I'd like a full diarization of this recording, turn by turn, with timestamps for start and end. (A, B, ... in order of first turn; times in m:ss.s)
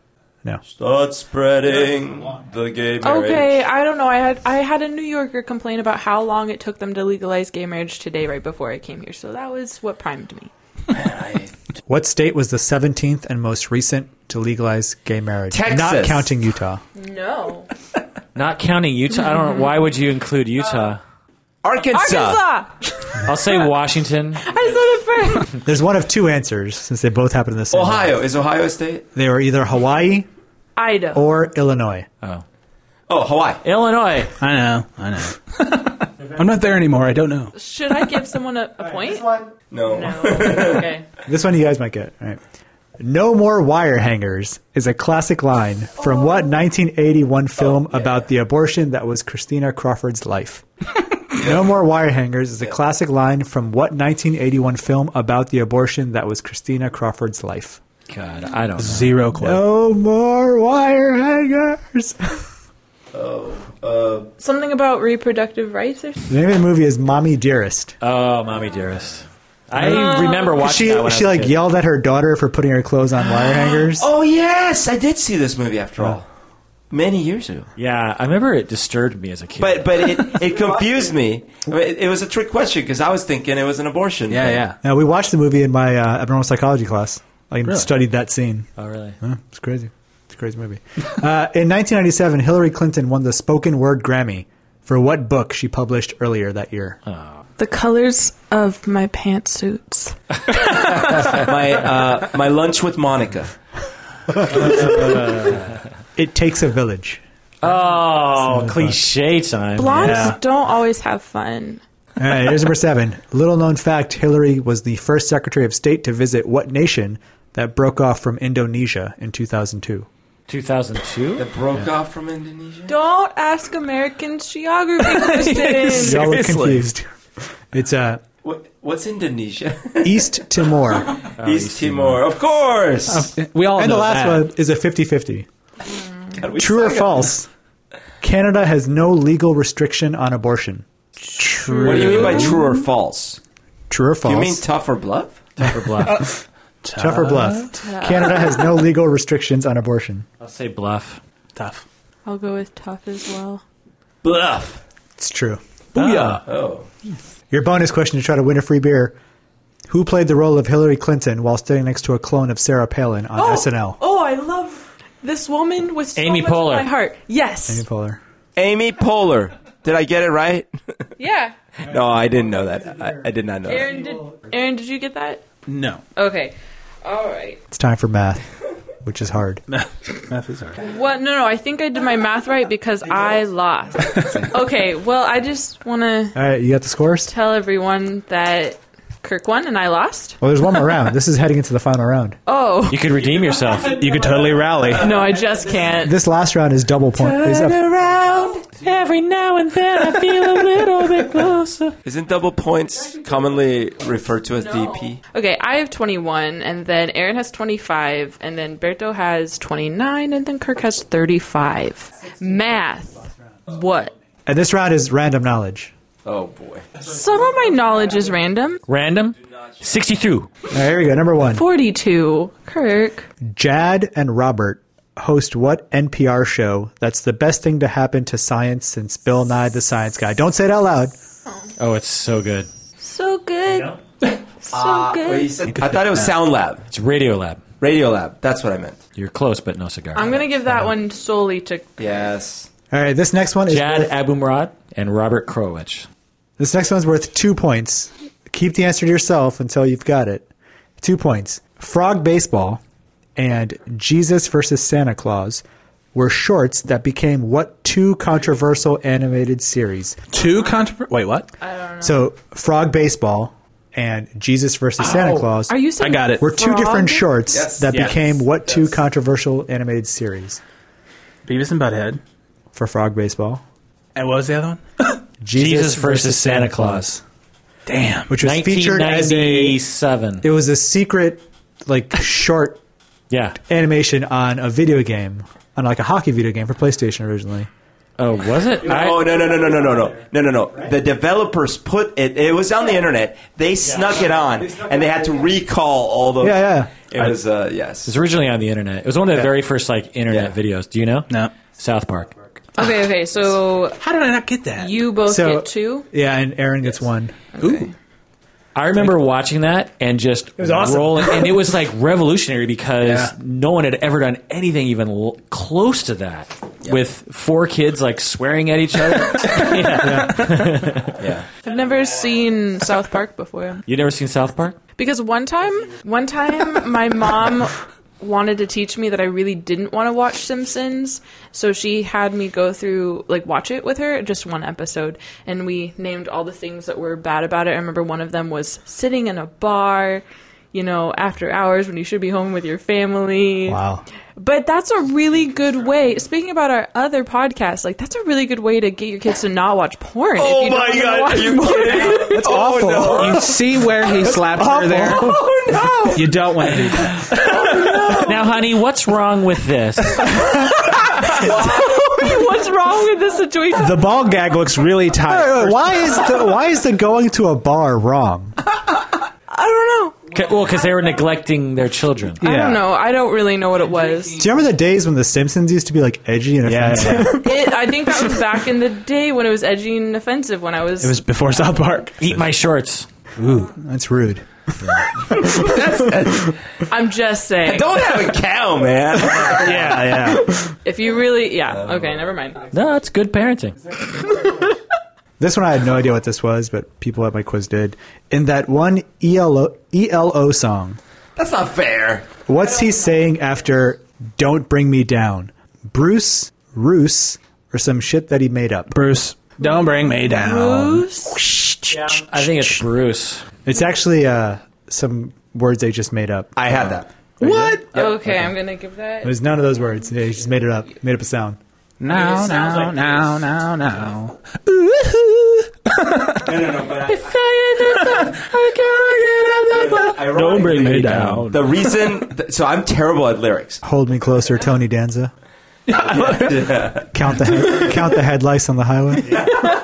0:00.7-0:03.6 A
0:03.0-0:10.5 B
0:10.9-0:11.5 A
0:11.9-0:16.8 C
0:15.5-0:16.3 A
0:17.0-0:17.7 B
0:18.4-0:21.0 D
0:19.2-0:19.7 B
0:21.6-0:22.4 A
0:21.9-0:23.6 B
0:23.2-0:24.4 D
0:24.4-0:25.6 B
0:25.6-0:28.2 C
0:27.7-0:29.1 A
0:29.2-0:30.3 C
0:30.8-0:31.4 B
0:31.1-0:32.1 C
0:33.1-0:33.6 A
0:33.6-0:34.4 D
0:34.4-0:37.6 E
0:37.5-0:39.4 B
0:38.9-0:39.5 C
0:39.7-0:40.9 A
0:39.9-0:41.1 B
0:41.3-0:42.4 C
0:43.0-0:50.6 C
0:47.9-0:48.2 A
0:51.3-0:57.8 C
0:51.4-0:51.6 A
0:58.1-0:59.1 D
0:58.8-0:59.6 E
0:59.4-1:02.4 C
1:03.1-1:04.3 A
1:04.4-1:06.3 B
1:06.3-1:08.0 C
1:08.0-1:11.6 D
1:09.8-1:14.1 C
1:09.8-1:10.6 B
1:13.3-1:16.3 A
1:16.9-1:17.7 A
1:17.8-1:20.3 D
1:19.6-1:24.6 A
1:24.3-1:24.8 E
1:24.8-1:28.7 C
1:27.6-1:27.9 E
1:28.8-1:29.2 D
1:29.2-1:37.0 C
1:37.1-1:37.4 D
1:37.6-1:41.0 B
1:40.9-1:43.6 A
1:44.4-1:45.5 C
1:44.6-1:45.6 D
1:46.2-1:47.2 C
1:47.6-1:50.4 D
1:48.4-1:49.0 C
1:49.8-1:51.8 B
1:50.0-1:50.4 E
1:52.2-2:00.1 C
2:00.5-2:01.5 D
2:01.4-2:02.9 A
2:02.9-2:06.4 B
2:05.0-2:06.8 E
2:06.0-2:07.0 C
2:07.7-2:08.2 C
2:08.4-2:10.2 A
2:10.0-2:11.1 C
2:11.4-2:12.2 D
2:11.4-2:13.3 A
2:13.1-2:14.5 E
2:13.8-2:15.5 C
2:16.4-2:17.4 A
2:16.6-2:17.5 C
2:18.2-2:20.8 C
2:21.3-2:22.6 B
2:21.4-2:22.6 E
2:21.8-2:23.4 A
2:23.9-2:24.6 C
2:24.2-2:25.4 A
2:25.6-2:26.3 D
2:26.8-2:27.8 E
2:27.0-2:30.3 C
2:27.8-2:28.7 B
2:30.4-2:31.2 D
2:31.6-2:31.8 E
2:32.3-2:33.6 B
2:34.2-2:34.8 A
2:35.2-2:36.4 C
2:36.0-2:36.4 E
2:36.4-2:36.9 A
2:37.5-2:39.2 C
2:39.9-2:44.0 C
2:43.3-2:47.8 B
2:46.2-2:46.9 D
2:47.7-2:48.2 C
2:48.6-2:50.7 A
2:51.2-2:51.6 B
2:51.8-2:53.9 A
2:51.9-2:52.8 C
2:53.6-2:55.4 B
2:55.7-2:56.0 E
2:56.2-2:57.6 B
2:57.7-2:58.4 C
2:59.0-2:59.6 C
2:59.7-3:00.8 E
3:00.8-3:06.4 B
3:06.4-3:07.3 C
3:07.3-3:10.4 B
3:10.4-3:12.4 C
3:12.5-3:13.1 B
3:12.9-3:14.0 D
3:13.9-3:15.2 E
3:15.0-3:16.2 B
3:16.0-3:17.9 C
3:17.2-3:18.7 A
3:18.7-3:22.0 D
3:22.0-3:25.2 A
3:24.6-3:34.1 B
3:34.5-3:35.9 C
3:36.2-3:36.9 A
3:37.0-3:38.8 B
3:38.9-3:40.5 D
3:40.7-3:41.6 C
3:41.5-3:43.3 B
3:43.4-3:51.2 C
3:51.8-3:52.7 D
3:53.0-3:54.0 B
3:53.7-3:54.0 D
3:54.6-3:55.6 B
3:54.7-3:56.9 A
3:55.7-3:56.4 E
3:56.9-3:57.6 D
3:57.8-3:59.0 A
3:59.2-4:00.4 D
4:00.1-4:02.1 B
4:02.0-4:02.7 A
4:02.9-4:04.1 C
4:03.7-4:06.1 D
4:06.6-4:10.5 C
4:11.0-4:12.8 C
4:13.4-4:15.6 C
4:16.1-4:20.2 C
4:20.3-4:21.5 E
4:21.6-4:22.2 B
4:22.0-4:30.6 C
4:25.1-4:25.4 E
4:25.7-4:27.7 B
4:26.0-4:26.4 E
4:27.5-4:28.0 A
4:27.9-4:28.3 E
4:31.4-4:32.2 E
4:32.7-4:33.6 C
4:34.2-4:35.2 E
4:35.4-4:37.2 C
4:35.5-4:37.2 D
4:37.9-4:38.4 E
4:38.3-4:39.8 C
4:38.4-4:40.4 D
4:40.4-4:42.8 C
4:43.3-4:43.6 D
4:43.6-4:47.7 C
4:48.2-4:49.4 D
4:48.8-4:58.1 A
4:49.5-4:49.9 C
4:54.7-4:55.3 C
4:56.4-4:57.1 C
4:58.0-5:02.4 D
5:00.3-5:00.5 A
5:01.3-5:01.5 E
5:02.8-5:04.0 B
5:04.0-5:05.0 E
5:04.8-5:06.1 B
5:05.2-5:07.5 C
5:07.6-5:07.9 B
5:07.6-5:07.9 E
5:08.8-5:21.2 D
5:10.6-5:11.5 C
5:13.0-5:13.3 E
5:20.0-5:20.5 C
5:21.2-5:21.5 A
5:21.6-5:23.8 B
5:23.9-5:24.8 D
5:25.0-5:43.8 B
5:43.7-5:44.0 C
5:44.4-5:52.6 B
5:50.4-5:53.6 A
5:52.3-5:53.6 C
5:52.4-5:55.2 E
5:54.5-5:55.2 C
5:55.1-5:56.5 A
5:56.1-5:58.0 E
5:57.2-5:58.5 A
5:58.1-6:00.5 D
6:00.5-6:04.2 B
6:01.4-6:01.9 A
6:03.8-6:06.3 E
6:05.3-6:08.6 C
6:09.5-6:10.3 B
6:10.3-6:12.4 D
6:12.4-6:12.9 E
6:12.4-6:14.4 B
6:14.4-6:17.5 C
6:16.6-6:17.5 E
6:17.3-6:21.2 B
6:21.0-6:22.5 E
6:22.2-6:23.1 D
6:23.4-6:23.7 E
6:23.4-6:26.2 C
6:24.8-6:25.1 D
6:25.4-6:26.6 A
6:26.9-6:28.1 B
6:27.6-6:30.0 A
6:29.3-6:30.6 E
6:30.7-6:32.7 B
6:32.7-6:34.0 D
6:35.4-6:41.0 C
6:41.4-6:42.4 A
6:42.5-6:49.0 C
6:48.9-6:52.8 E
6:49.6-6:51.4 B
6:51.9-6:53.4 D
6:53.6-6:57.8 C
6:56.6-6:57.1 A
6:57.4-6:57.9 E
6:57.9-6:59.4 B
6:59.2-7:01.6 C
7:02.0-7:06.6 E
7:02.1-7:03.2 D
7:06.4-7:07.4 A
7:07.1-7:08.6 B
7:07.8-7:11.8 E
7:09.6-7:13.8 A
7:10.6-7:11.5 D
7:13.8-7:15.3 C
7:15.9-7:16.7 E
7:16.0-7:17.1 A
7:17.1-7:19.5 C